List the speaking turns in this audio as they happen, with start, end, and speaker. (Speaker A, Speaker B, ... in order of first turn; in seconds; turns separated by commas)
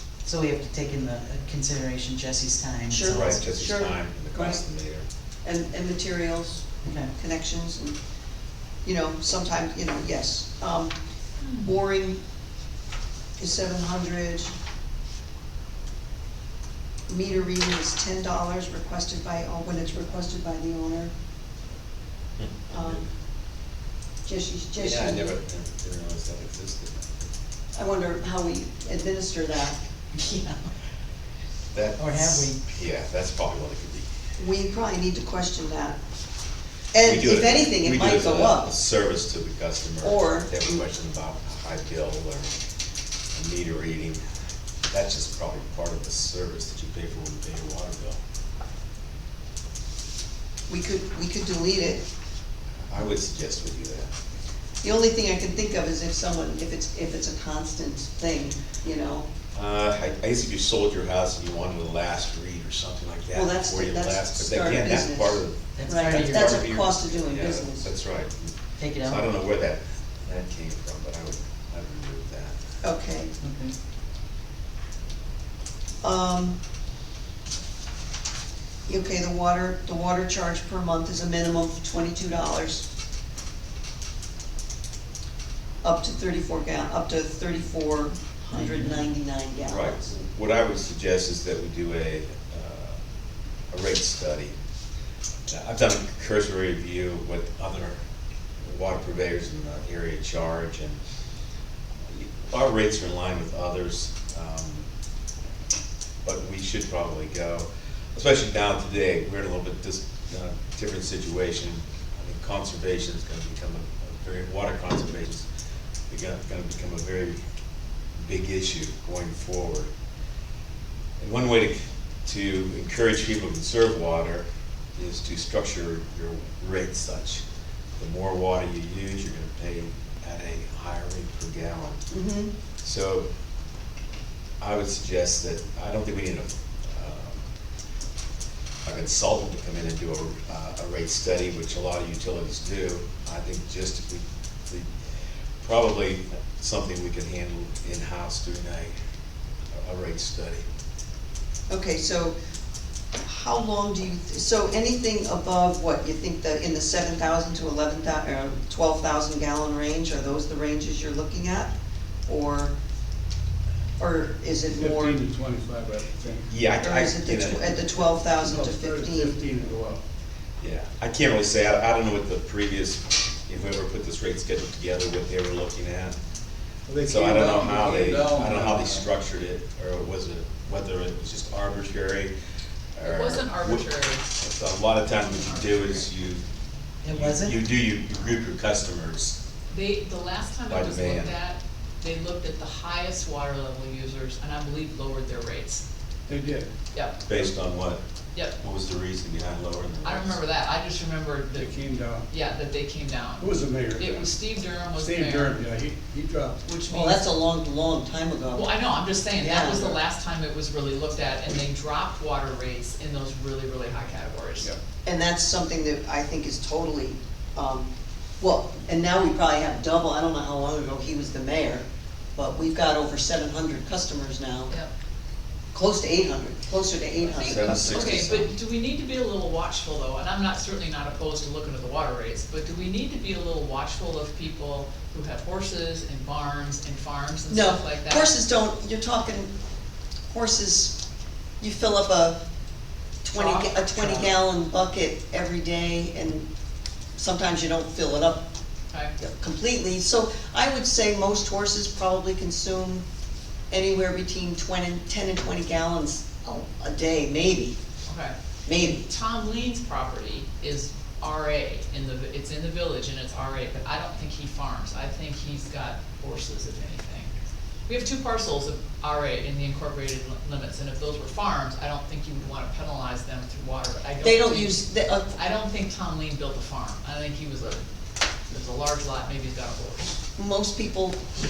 Speaker A: 0.2-3.4, Speaker B: 2.9-4.6, Speaker C: 3.1-5.0, Speaker B: 5.4-8.0, Speaker A: 6.8-7.1, Speaker B: 8.8-10.9, Speaker D: 11.4-11.7, Speaker B: 11.6-12.2, Speaker B: 13.4-14.5, Speaker B: 17.1-21.1, Speaker B: 22.7-23.0, Speaker B: 24.2-25.4, Speaker C: 24.8-27.3, Speaker B: 27.7-29.8, Speaker A: 30.1-30.7, Speaker C: 31.7-34.1, Speaker A: 32.0-32.6, Speaker B: 34.4-36.0, Speaker B: 36.9-38.8, Speaker C: 37.0-42.6, Speaker B: 40.0-40.7, Speaker C: 43.3-44.2, Speaker C: 44.9-48.2, Speaker B: 50.7-52.0, Speaker C: 52.8-54.1, Speaker B: 54.8-59.3, Speaker C: 59.5-72.6, Speaker B: 63.3-67.9, Speaker A: 65.7-66.7, Speaker A: 68.8-69.3, Speaker B: 72.8-73.3, Speaker A: 73.4-73.7, Speaker B: 76.0-76.6, Speaker B: 78.9-82.8, Speaker B: 85.8-90.1, Speaker A: 88.5-89.1, Speaker C: 89.7-93.0, Speaker C: 93.7-94.5, Speaker C: 95.5-98.0, Speaker C: 98.6-101.0, Speaker C: 102.1-104.9, Speaker C: 106.2-115.5, Speaker C: 116.1-117.4, Speaker C: 118.2-119.9, Speaker C: 121.2-124.4, Speaker C: 125.0-127.4, Speaker C: 128.0-132.0, Speaker B: 132.1-132.5, Speaker C: 132.8-133.2, Speaker C: 134.6-137.4, Speaker C: 138.8-144.9, Speaker C: 145.6-148.9, Speaker C: 149.8-150.7, Speaker B: 151.7-152.3, Speaker B: 153.2-161.7, Speaker B: 162.3-162.7, Speaker B: 164.0-165.2, Speaker E: 164.7-166.4, Speaker C: 166.5-167.8, Speaker B: 166.8-169.4, Speaker E: 168.3-170.0, Speaker C: 170.6-176.2, Speaker E: 176.9-179.1, Speaker C: 177.1-182.3, Speaker C: 182.9-186.4, Speaker D: 183.0-184.2, Speaker D: 185.2-186.1, Speaker A: 187.0-187.6, Speaker C: 187.1-189.4, Speaker D: 189.7-195.8, Speaker C: 190.7-191.3, Speaker E: 196.3-196.7, Speaker C: 197.2-198.0, Speaker C: 198.6-200.4, Speaker D: 200.0-205.6, Speaker E: 201.5-202.3, Speaker E: 203.4-204.4, Speaker E: 204.9-206.6, Speaker D: 206.6-207.2, Speaker B: 206.9-208.6, Speaker D: 208.5-214.7, Speaker B: 209.4-210.0, Speaker B: 215.0-217.9, Speaker B: 218.4-221.8, Speaker B: 222.3-224.7, Speaker B: 225.7-228.4, Speaker C: 227.3-228.5, Speaker D: 227.6-238.3, Speaker B: 237.5-239.5, Speaker B: 240.3-240.9, Speaker B: 241.6-242.4, Speaker B: 243.2-246.4, Speaker D: 243.3-244.4, Speaker B: 247.2-248.4, Speaker B: 249.2-253.0, Speaker B: 253.7-257.8, Speaker D: 258.1-267.3, Speaker B: 258.6-259.0, Speaker D: 267.9-277.9, Speaker B: 274.2-275.3, Speaker D: 278.5-280.1, Speaker B: 280.4-281.2